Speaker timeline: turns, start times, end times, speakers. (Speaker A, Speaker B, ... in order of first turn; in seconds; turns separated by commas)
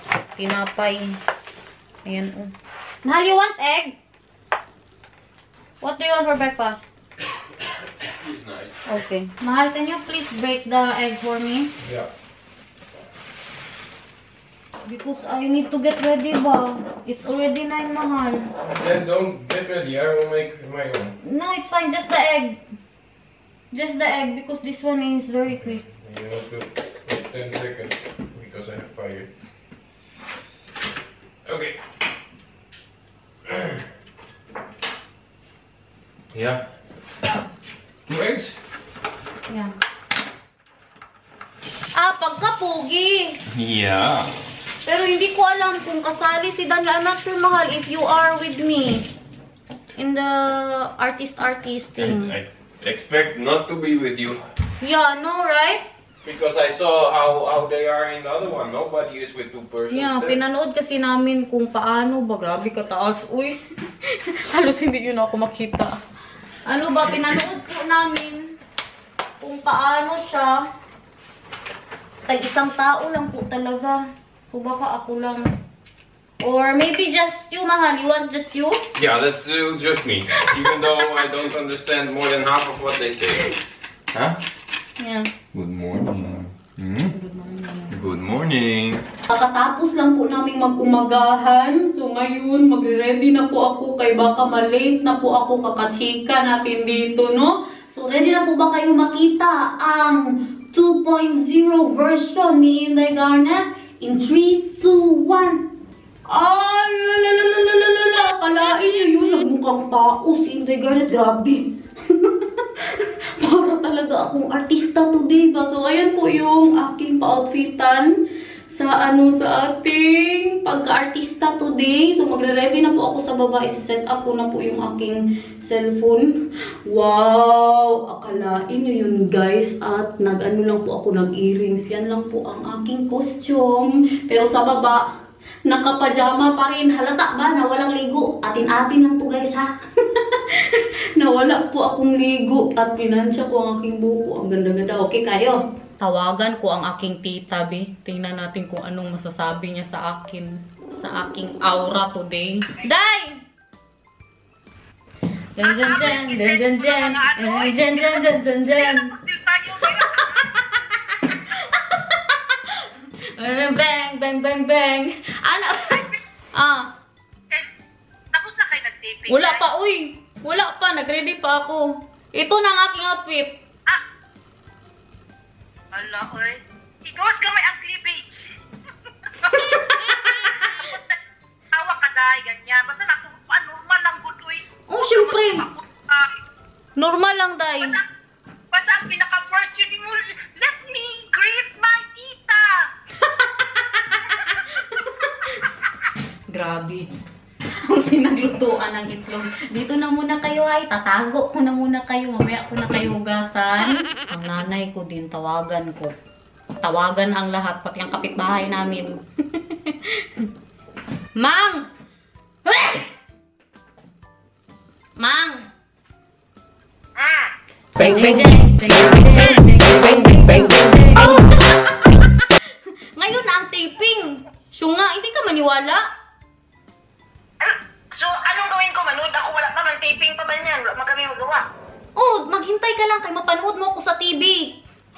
Speaker A: 0.4-1.2, Speaker A: 2.0-2.5, Speaker A: 3.0-4.0, Speaker A: 5.8-6.9, Speaker B: 7.8-8.7, Speaker A: 8.8-11.7, Speaker B: 11.8-12.1, Speaker A: 14.8-18.5, Speaker B: 18.6-21.1, Speaker A: 21.2-22.6, Speaker A: 23.7-25.8, Speaker B: 25.8-29.3, Speaker B: 31.4-31.8, Speaker B: 33.5-33.8, Speaker B: 36.3-36.6, Speaker B: 38.1-38.5, Speaker A: 41.9-43.4, Speaker B: 43.5-44.3, Speaker A: 44.8-49.1, Speaker A: 49.9-52.4, Speaker B: 52.0-54.4, Speaker A: 54.8-55.9, Speaker B: 56.2-60.4, Speaker A: 59.9-66.0, Speaker A: 66.6-68.5, Speaker A: 69.4-70.7, Speaker A: 72.2-75.5, Speaker A: 76.4-78.8, Speaker B: 79.0-83.6, Speaker B: 84.1-84.4, Speaker A: 85.0-85.3, Speaker B: 85.5-87.1, Speaker A: 87.1-88.0, Speaker B: 87.9-89.0, Speaker A: 89.3-105.6, Speaker A: 106.3-118.2, Speaker A: 118.7-135.0, Speaker A: 135.7-153.4, Speaker A: 155.5-159.1, Speaker C: 155.6-158.2, Speaker C: 158.8-160.5, Speaker A: 159.7-166.9, Speaker C: 168.3-169.6, Speaker A: 169.3-173.6, Speaker C: 175.9-178.4, Speaker C: 179.4-179.7, Speaker A: 179.4-180.9, Speaker C: 180.6-181.2, Speaker C: 181.7-186.3, Speaker A: 184.9-185.7, Speaker A: 186.9-188.0, Speaker C: 188.7-192.9, Speaker A: 193.2-195.7, Speaker A: 196.5-197.1, Speaker A: 197.8-206.1, Speaker A: 206.8-210.5, Speaker A: 211.3-211.9, Speaker A: 212.6-213.1, Speaker A: 215.2-215.6, Speaker C: 217.2-217.5, Speaker A: 218.0-226.1, Speaker C: 227.6-231.7, Speaker A: 232.1-234.8